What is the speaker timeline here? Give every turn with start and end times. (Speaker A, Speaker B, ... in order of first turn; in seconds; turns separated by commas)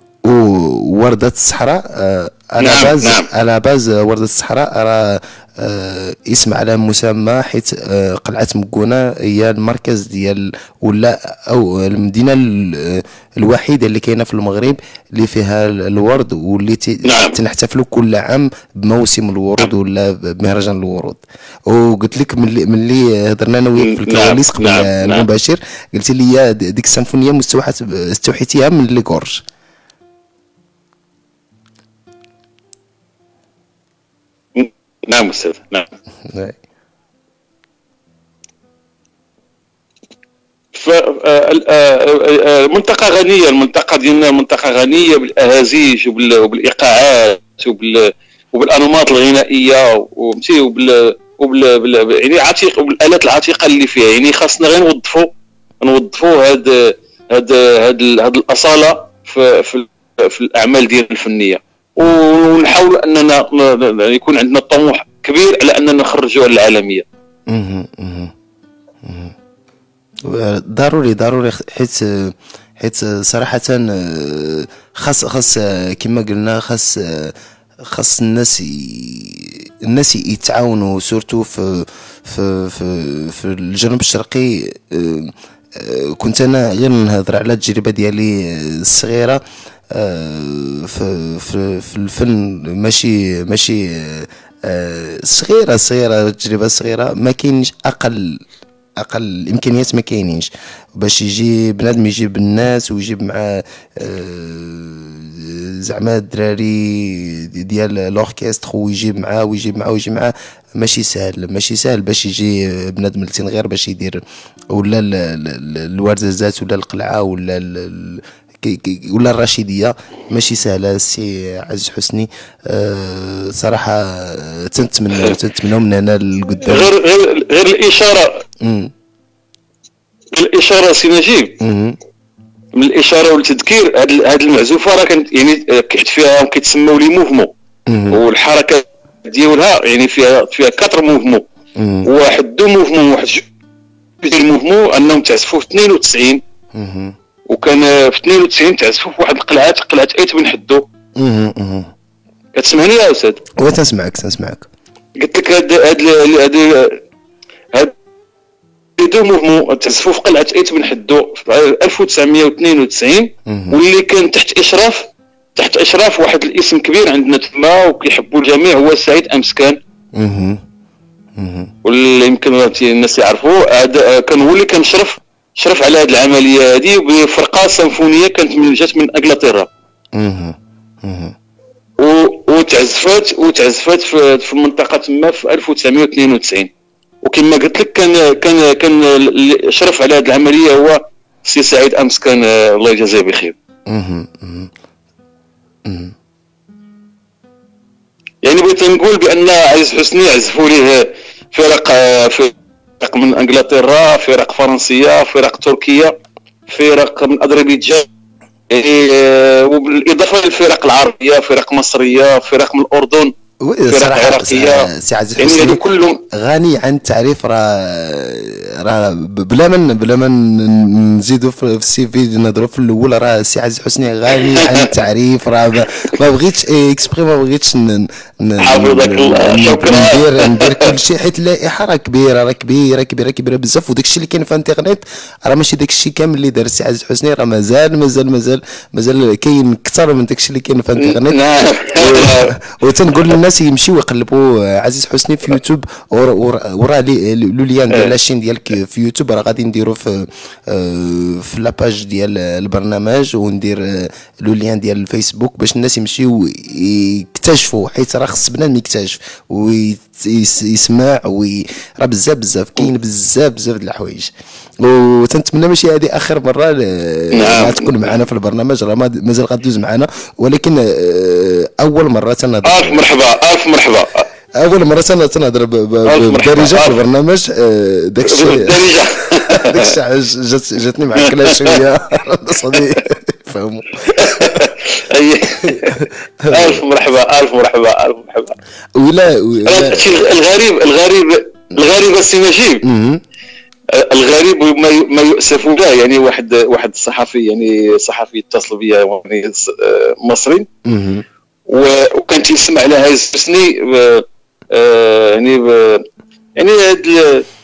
Speaker A: 0.2-29.4, Speaker B: 2.6-3.3, Speaker B: 17.0-17.4, Speaker B: 23.8-25.3, Speaker B: 34.5-35.9, Speaker A: 36.3-36.6, Speaker B: 40.7-55.3, Speaker B: 55.8-67.0, Speaker A: 67.5-68.3, Speaker A: 69.0-69.3, Speaker A: 70.2-77.3, Speaker A: 77.9-89.4, Speaker A: 89.9-98.4, Speaker A: 99.0-114.2, Speaker A: 114.7-126.9, Speaker B: 126.6-128.4, Speaker A: 128.6-128.9, Speaker B: 130.3-131.5, Speaker A: 131.6-132.0, Speaker B: 132.7-137.5, Speaker A: 137.9-138.2, Speaker B: 138.1-141.4, Speaker A: 141.8-142.1, Speaker B: 142.0-143.4, Speaker B: 144.2-146.4, Speaker A: 146.7-147.1, Speaker B: 147.5-150.8, Speaker A: 151.2-151.9, Speaker B: 152.5-153.4, Speaker A: 153.6-154.7, Speaker B: 155.2-157.0, Speaker B: 159.0-169.8, Speaker A: 163.5-163.8, Speaker A: 170.2-170.6, Speaker A: 171.4-171.7, Speaker B: 171.8-179.7, Speaker A: 180.1-181.3, Speaker B: 182.0-186.7, Speaker B: 187.2-193.5, Speaker A: 193.9-194.7, Speaker A: 195.8-196.1, Speaker B: 198.4-206.1, Speaker B: 206.7-208.1, Speaker B: 208.7-213.3, Speaker A: 213.6-273.1, Speaker B: 213.9-216.2, Speaker B: 224.4-224.9, Speaker B: 228.6-230.9, Speaker B: 241.0-242.6, Speaker B: 267.3-268.1, Speaker B: 272.6-274.2, Speaker A: 274.6-278.9, Speaker B: 276.1-277.0, Speaker B: 278.2-279.9, Speaker A: 279.5-284.7, Speaker B: 281.2-281.8, Speaker B: 284.1-288.5, Speaker A: 285.6-286.8, Speaker A: 288.9-290.0, Speaker B: 289.6-292.8, Speaker A: 292.8-293.2, Speaker B: 293.9-300.6, Speaker A: 300.9-301.2, Speaker B: 301.7-306.0, Speaker B: 306.6-307.4